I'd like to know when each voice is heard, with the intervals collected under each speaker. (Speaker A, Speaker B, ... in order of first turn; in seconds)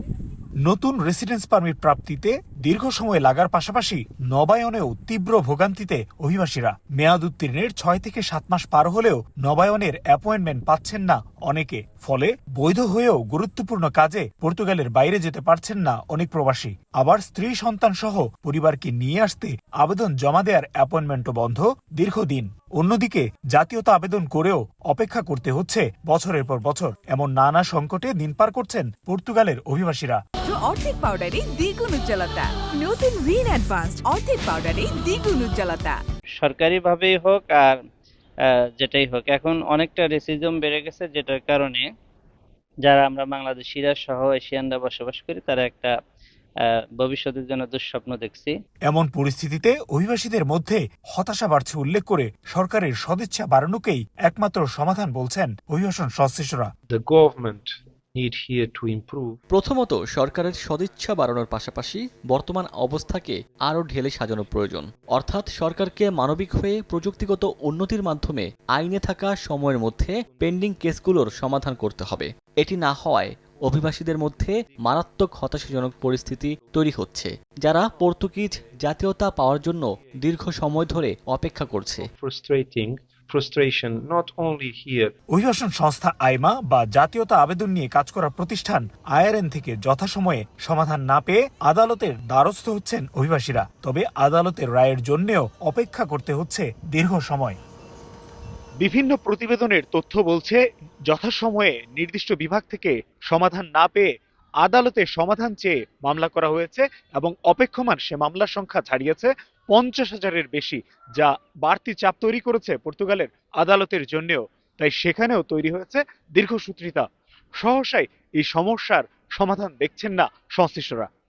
Speaker A: 0.7-30.2, 48.9-56.7, 85.3-97.6, 98.8-104.1, 104.6-117.0, 117.6-121.1
Speaker B: 30.5-36.0
Speaker C: 36.4-37.8, 38.8-41.8, 42.8-45.9, 47.0-48.5
Speaker D: 56.9-59.4, 82.2-85.1
Speaker E: 59.5-82.0